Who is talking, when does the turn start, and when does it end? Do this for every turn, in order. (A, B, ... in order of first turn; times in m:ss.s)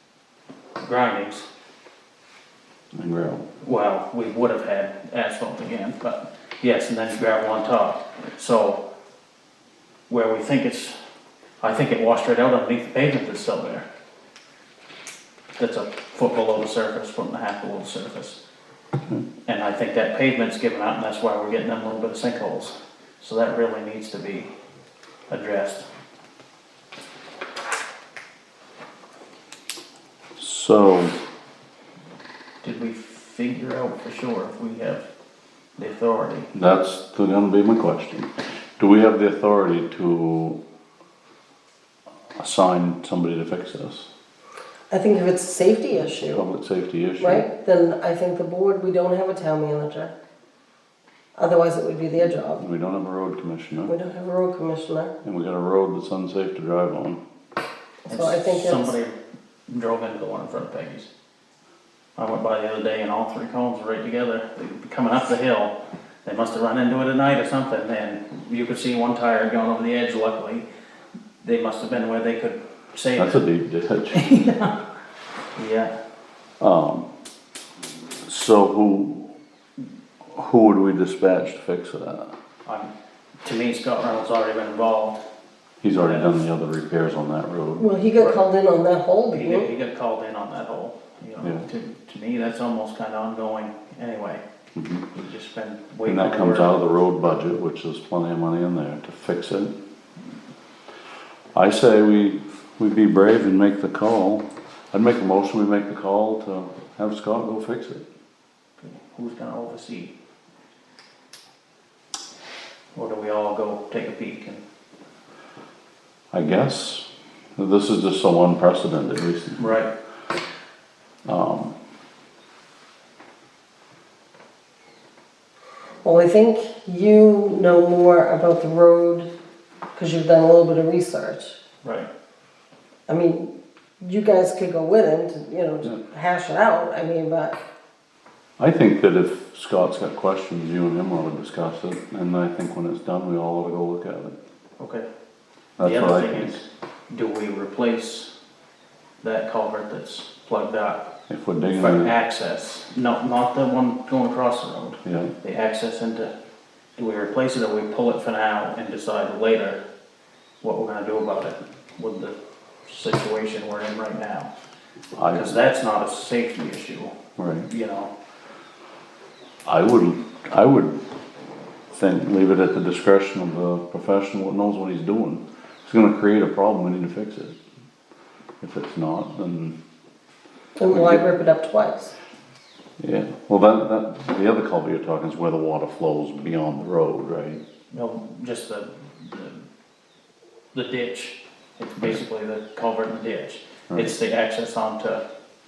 0:00.8-0:01.5 A
0:02.9-0:03.5 B
0:03.6-0:08.8 A
0:10.1-0:11.0 A
0:11.6-0:13.8 A
0:15.6-0:18.4 A
0:19.4-0:24.5 A
0:25.3-0:25.8 A
0:30.4-0:31.2 B
0:32.6-0:35.1 A
0:35.8-0:36.5 A
0:36.5-0:40.6 B
0:42.4-0:44.1 B
0:44.9-0:46.4 C
0:45.9-0:47.4 B
0:47.2-0:50.1 C
0:51.4-0:52.6 C
0:52.4-0:53.9 B
0:53.9-0:55.1 C
0:55.2-0:57.2 B
0:58.0-0:59.0 C
0:58.1-0:59.1 A
0:59.7-1:01.1 A
1:02.2-1:10.6 A
1:11.4-1:13.4 A
1:13.2-1:14.2 B
1:14.1-1:14.8 A
1:15.5-1:15.9 A
1:16.6-1:17.1 B
1:18.2-1:19.3 B
1:20.3-1:22.3 B
1:22.6-1:22.9 A
1:23.4-1:25.2 A
1:25.8-1:27.9 B
1:25.9-1:26.4 A
1:27.8-1:29.7 C
1:29.3-1:34.4 A
1:34.8-1:35.1 B
1:35.1-1:36.7 A
1:36.0-1:39.7 B
1:41.5-1:48.0 B
1:48.8-1:50.1 A
1:52.9-1:54.6 A
1:56.3-1:57.0 B
1:57.6-1:59.7 B
1:59.6-1:59.9 A
2:01.2-2:01.7 B
2:06.0-2:09.3 C
2:09.9-2:11.6 C
2:11.8-2:12.1 A
2:13.1-2:17.6 C
2:18.6-2:24.4 B
2:24.8-2:25.0 A
2:25.8-2:26.6 B
2:25.8-2:28.3 A
2:29.2-2:36.3 A
2:31.3-2:32.1 B
2:35.0-2:35.3 B
2:37.0-2:39.8 A
2:40.6-2:44.5 A
2:45.2-2:45.6 B
2:45.3-2:48.1 A
2:47.4-2:47.7 B
2:49.6-2:51.0 B
2:51.9-2:57.6 B
2:58.6-2:59.8 B
3:00.8-3:02.1 C
3:00.9-3:01.3 B
3:03.0-3:07.6 B
3:07.9-3:09.6 A
3:10.7-3:15.2 A